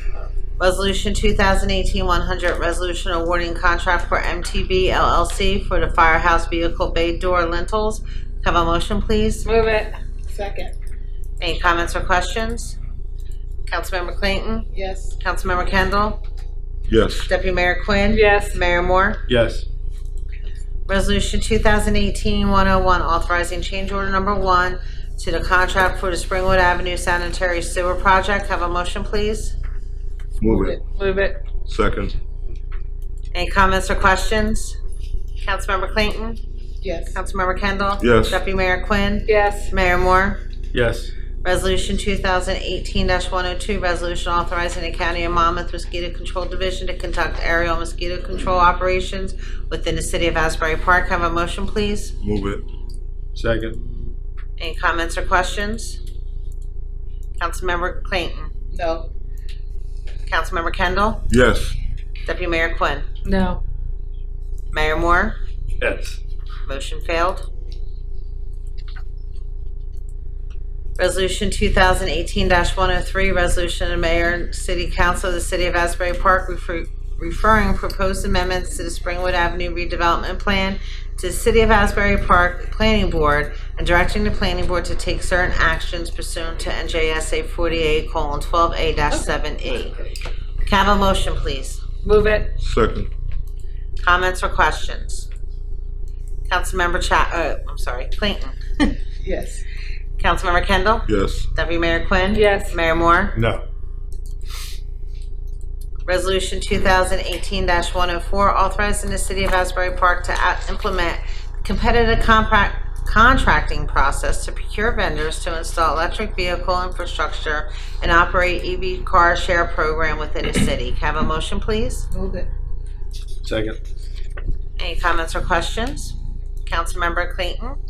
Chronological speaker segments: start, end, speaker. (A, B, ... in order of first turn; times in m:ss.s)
0:00.6-0:09.5 A
0:09.4-0:09.9 B
0:10.3-0:10.7 C
0:11.4-0:12.8 A
0:13.7-0:16.2 A
0:14.7-0:15.2 C
0:16.9-0:17.3 D
0:17.3-0:19.2 A
0:18.1-0:18.6 B
0:19.3-0:19.6 E
0:20.9-0:29.5 A
0:30.4-0:30.8 D
0:30.4-0:30.8 C
0:31.0-0:31.4 B
0:31.6-0:32.2 D
0:33.3-0:34.8 A
0:35.4-0:36.4 A
0:36.8-0:37.2 C
0:37.1-0:40.4 A
0:38.0-0:38.4 D
0:39.2-0:39.7 B
0:40.7-0:41.1 E
0:41.4-0:52.2 A
0:52.2-0:52.6 D
0:53.3-0:53.8 E
0:54.6-0:56.0 A
0:57.4-0:58.5 A
0:58.7-0:59.1 C
1:00.3-1:01.3 A
1:01.3-1:01.8 D
1:02.2-1:03.1 A
1:03.2-1:03.6 B
1:04.7-1:05.4 A
1:05.8-1:06.2 E
1:06.6-1:07.5 A
1:11.0-1:30.0 A
1:29.1-1:29.4 C
1:30.6-1:31.8 A
1:32.0-1:32.5 B
1:32.6-1:33.1 D
1:34.0-1:35.3 A
1:36.5-1:39.0 A
1:39.2-1:39.6 C
1:40.2-1:43.4 A
1:41.1-1:41.5 D
1:42.3-1:42.8 B
1:43.3-1:43.6 E
1:46.0-2:02.1 A
2:02.1-2:02.5 C
2:03.4-2:03.8 E
2:04.8-2:06.1 A
2:06.6-2:07.8 A